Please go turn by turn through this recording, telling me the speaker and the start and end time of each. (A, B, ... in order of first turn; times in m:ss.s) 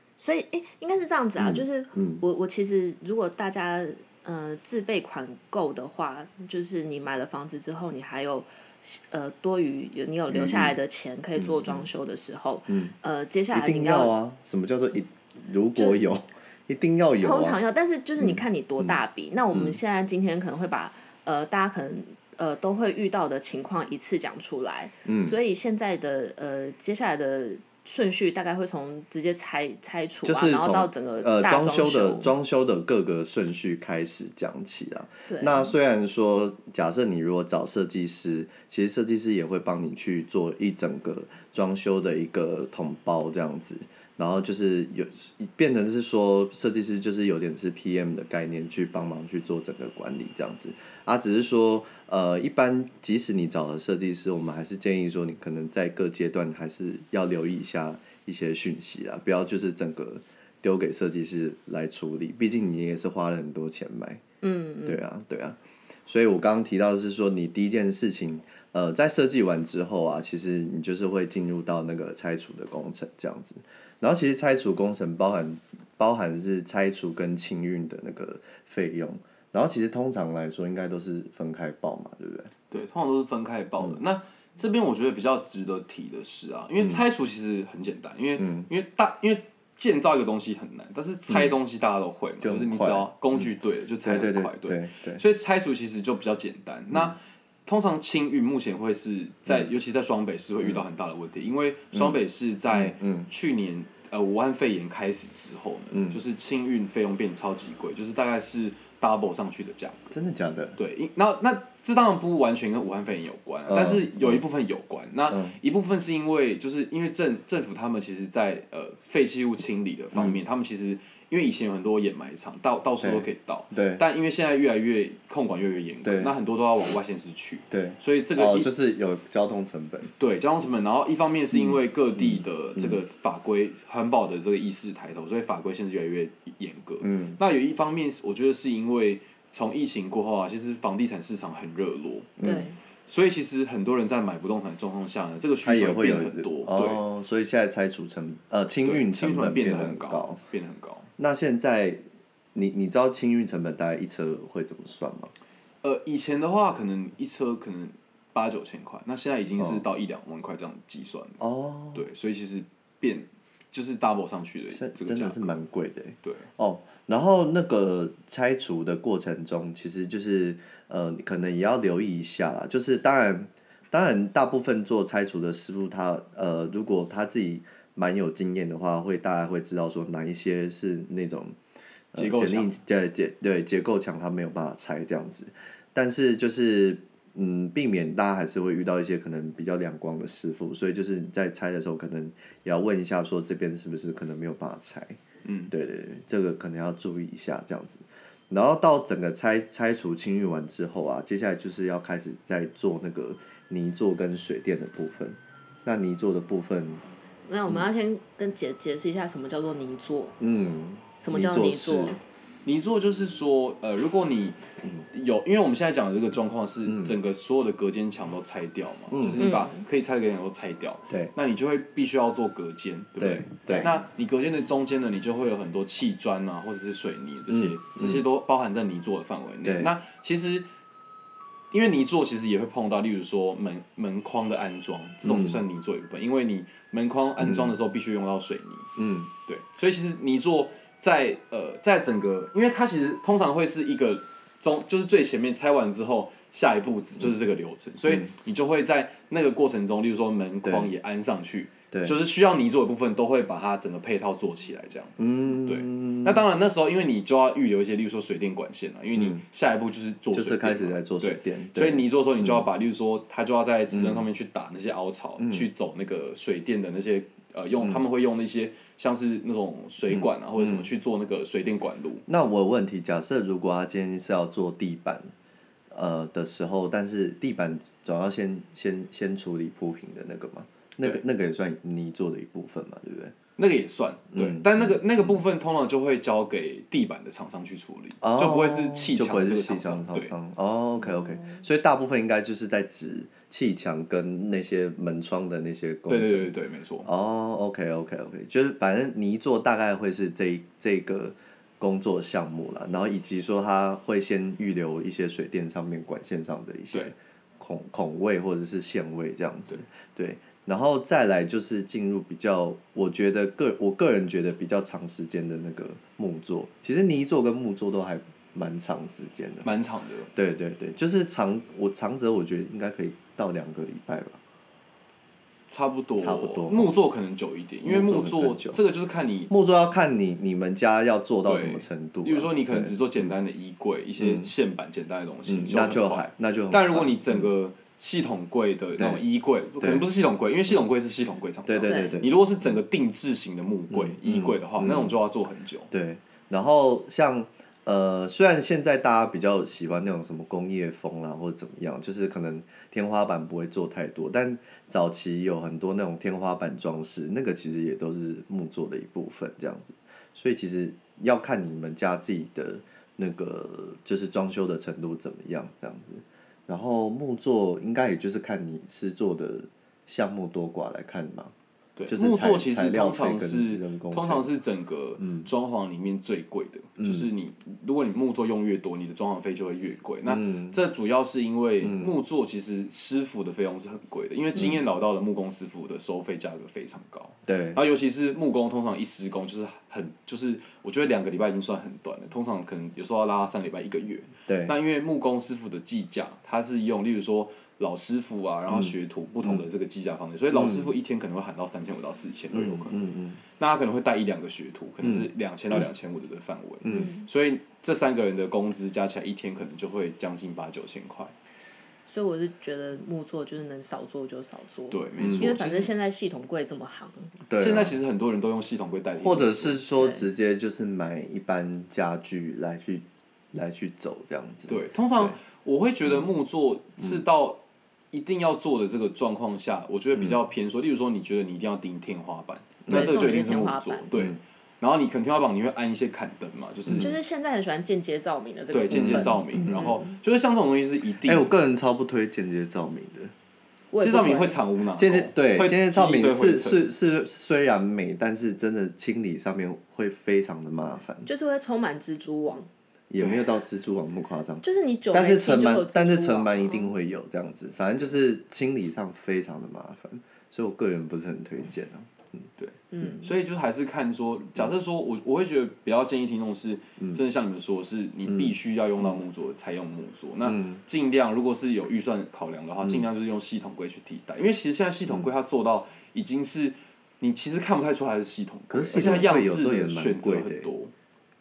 0:00.2-0:14.1 A
0:01.4-0:02.2 B
0:10.3-0:10.8 B
0:11.4-0:11.9 B
0:12.7-0:12.9 B
0:13.5-0:17.6 B
0:17.2-0:32.3 A
0:18.2-0:19.8 B
0:25.0-0:25.4 B
0:30.2-1:04.2 B
0:35.3-0:35.7 A
1:04.4-1:05.0 A
1:04.8-1:22.5 B
1:22.7-1:50.1 C
1:28.4-1:28.7 B
1:31.3-1:31.6 B
1:32.4-1:33.5 B
1:34.0-1:35.2 B
1:41.9-1:43.3 B
1:45.9-1:46.2 B
1:50.1-1:50.8 B
1:50.8-2:08.7 C
1:53.7-1:54.4 B
1:55.3-1:55.6 B
2:00.1-2:00.4 B
2:03.0-2:04.0 B
2:06.0-2:06.3 B
2:07.7-2:10.1 B
2:10.2-2:22.4 C
2:11.5-2:13.0 B
2:17.0-2:17.4 B
2:22.4-2:22.7 B
2:22.4-2:22.8 A
2:23.1-2:27.0 C
2:25.6-2:30.4 B
2:28.8-2:31.1 C
2:31.2-2:32.0 B
2:32.5-2:35.3 B
2:35.8-2:41.4 C
2:39.6-2:39.8 B
2:41.4-2:42.0 B
2:41.9-2:45.6 C
2:44.7-3:01.6 B
3:02.1-3:15.2 B
3:02.1-3:02.7 C
3:15.4-3:15.7 C
3:15.7-3:27.0 B
3:27.5-3:30.3 A
3:30.4-3:32.2 B
3:31.2-3:32.2 A
3:32.6-3:34.6 C
3:35.1-3:50.7 C
3:36.8-3:37.2 B
3:39.1-3:39.5 B
3:39.4-3:39.8 A
3:43.2-3:44.0 B
3:47.5-3:48.2 B
3:49.6-3:49.9 B
3:51.7-3:58.9 C
3:55.2-3:55.6 B
3:57.4-3:57.8 B
3:59.0-3:59.3 B
3:59.5-4:32.2 C
4:10.6-4:10.9 B
4:11.9-4:12.2 B
4:15.2-4:16.4 B
4:19.1-4:19.4 B
4:20.3-4:22.7 B
4:23.9-4:24.2 B
4:25.4-4:25.7 B
4:30.1-4:30.9 B
4:32.3-4:35.3 B
4:35.9-4:43.3 B
4:43.6-4:50.3 C
4:44.3-4:45.3 B
4:48.2-5:19.7 B
4:51.0-4:51.6 A
4:56.1-4:57.1 C
5:19.6-5:20.3 C
5:20.3-5:24.4 B
5:25.7-5:29.5 C
5:26.2-5:26.9 B
5:27.8-5:28.8 B
5:29.5-5:33.3 B
5:31.4-5:45.9 C
5:34.2-5:34.5 B
5:35.4-5:37.5 B
5:39.0-5:39.2 B
5:39.8-5:40.1 B
5:41.7-5:42.7 B
5:41.8-5:42.2 A
5:43.9-5:45.2 B
5:45.9-6:11.5 B
6:12.0-6:51.3 C
6:12.1-6:14.5 B
6:15.2-6:15.5 B
6:17.0-6:17.3 B
6:20.2-6:20.8 B
6:21.8-6:22.2 B
6:24.6-6:24.8 B
6:27.5-6:27.8 B
6:34.5-6:34.8 B
6:38.7-6:39.6 B
6:40.5-6:40.9 B
6:42.5-6:43.4 B
6:45.0-6:45.8 B
6:46.8-6:47.1 B
6:46.9-6:47.2 A
6:52.1-6:57.3 A
6:54.9-6:55.9 C
6:55.2-6:55.7 B
6:57.5-6:58.0 B
6:57.6-6:59.8 C
6:59.2-7:05.4 B
7:00.0-7:00.2 A
7:04.7-7:07.6 C
7:08.1-7:17.2 C
7:12.8-7:13.3 B
7:12.9-7:14.1 A
7:16.8-7:17.1 B
7:16.9-7:20.2 A
7:18.7-7:21.5 C
7:18.9-7:19.9 B
7:21.2-7:23.3 B
7:23.9-7:24.6 A
7:24.0-7:26.9 C
7:25.0-7:31.3 B
7:31.2-7:32.7 A
7:33.1-7:42.3 B
7:34.6-7:36.9 A
7:42.6-8:00.9 C
7:42.9-7:43.3 A
7:48.3-7:49.2 B
7:50.4-7:50.8 B
7:58.7-8:00.7 B